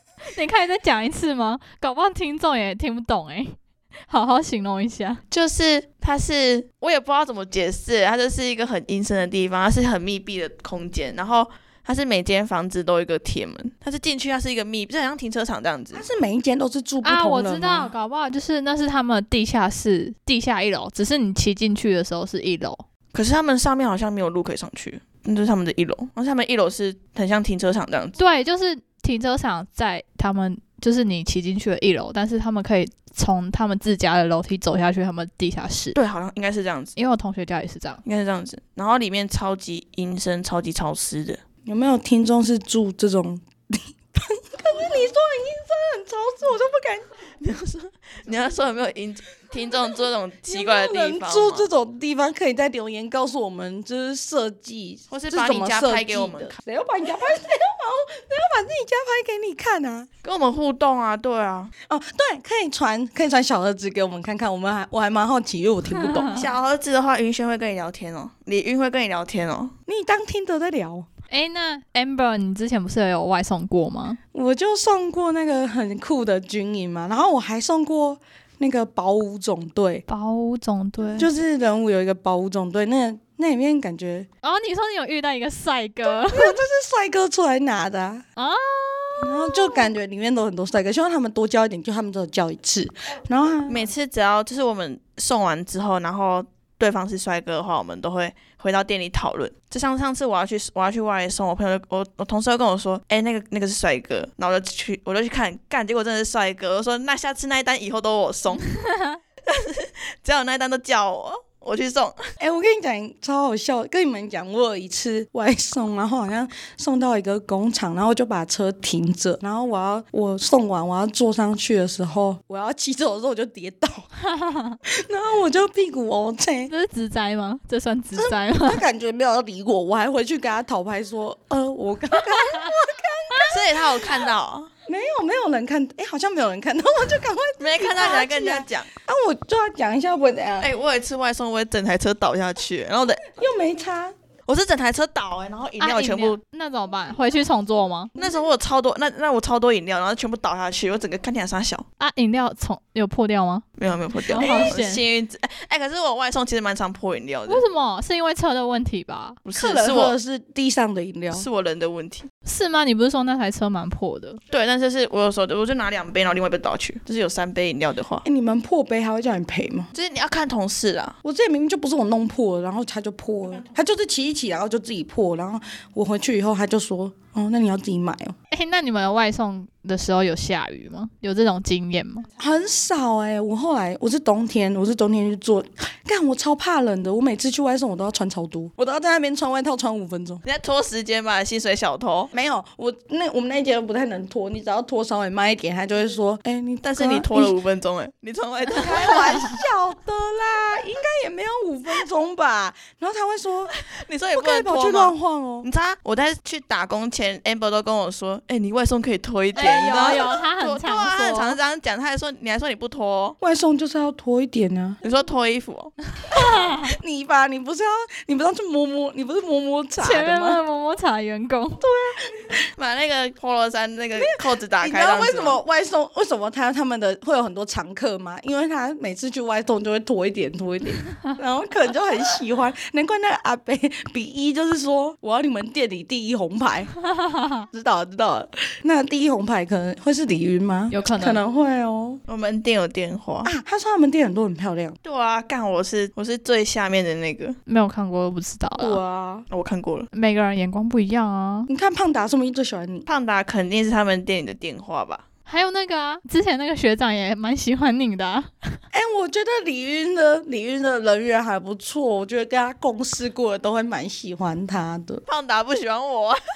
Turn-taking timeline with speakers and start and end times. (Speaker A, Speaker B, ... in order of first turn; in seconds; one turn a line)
Speaker A: 0.2-3.5
Speaker A: 4.1-5.2
Speaker B: 5.3-16.0
Speaker C: 15.9-17.9
Speaker A: 17.0-22.8
Speaker B: 23.1-28.2
Speaker A: 28.2-36.0
Speaker B: 35.9-36.9
Speaker A: 37.0-38.0
Speaker B: 38.0-41.4
Speaker C: 41.6-47.1
Speaker B: 47.4-51.7
Speaker C: 50.5-60.1
Speaker B: 55.1-56.6
Speaker B: 60.2-61.7
Speaker C: 61.9-66.3
Speaker A: 65.9-66.5
Speaker B: 66.3-69.7
Speaker C: 69.9-71.1
Speaker A: 71.3-74.2
Speaker C: 74.3-80.0
Speaker A: 80.1-81.3
Speaker C: 81.2-84.3
Speaker A: 84.4-86.6
Speaker C: 86.0-88.2
Speaker A: 88.4-89.9
Speaker C: 89.2-93.9
Speaker B: 93.7-108.8
Speaker A: 108.7-109.2
Speaker B: 109.5-112.2
Speaker C: 112.4-124.1
Speaker A: 124.2-124.8
Speaker C: 124.8-126.7
Speaker A: 126.7-128.8
Speaker C: 128.1-134.2
Speaker B: 133.5-134.7
Speaker C: 134.9-140.7
Speaker B: 137.6-138.9
Speaker B: 140.6-143.3
Speaker C: 143.3-144.1
Speaker B: 144.5-146.4
Speaker A: 145.8-148.1
Speaker B: 148.2-151.8
Speaker A: 152.0-153.7
Speaker B: 153.8-157.6
Speaker A: 154.2-155.0
Speaker A: 157.5-159.4
Speaker B: 159.4-160.2
Speaker C: 159.6-161.5
Speaker B: 161.3-162.3
Speaker A: 162.4-164.4
Speaker B: 164.5-168.2
Speaker C: 168.2-169.9
Speaker B: 169.9-171.2
Speaker C: 171.2-178.3
Speaker A: 178.5-182.2
Speaker C: 182.4-190.4
Speaker B: 190.4-192.3
Speaker C: 192.3-197.6
Speaker B: 196.8-199.6
Speaker C: 198.7-203.8
Speaker B: 203.7-213.4
Speaker C: 204.3-205.7
Speaker A: 209.5-211.6
Speaker C: 213.4-215.0
Speaker B: 215.0-215.9
Speaker A: 216.3-216.9
Speaker C: 216.3-220.6
Speaker A: 220.0-221.8
Speaker C: 221.8-222.5
Speaker B: 222.8-225.6
Speaker C: 224.1-236.9
Speaker A: 237.1-237.6
Speaker C: 237.7-242.2
Speaker A: 240.9-241.4
Speaker B: 242.3-243.5
Speaker C: 243.4-245.0
Speaker B: 245.0-247.6
Speaker A: 247.7-249.0
Speaker C: 248.8-249.5
Speaker B: 249.5-250.1
Speaker A: 250.1-251.7
Speaker C: 251.7-253.1
Speaker B: 253.1-255.2
Speaker A: 255.5-258.8
Speaker C: 258.9-265.2
Speaker B: 265.2-266.4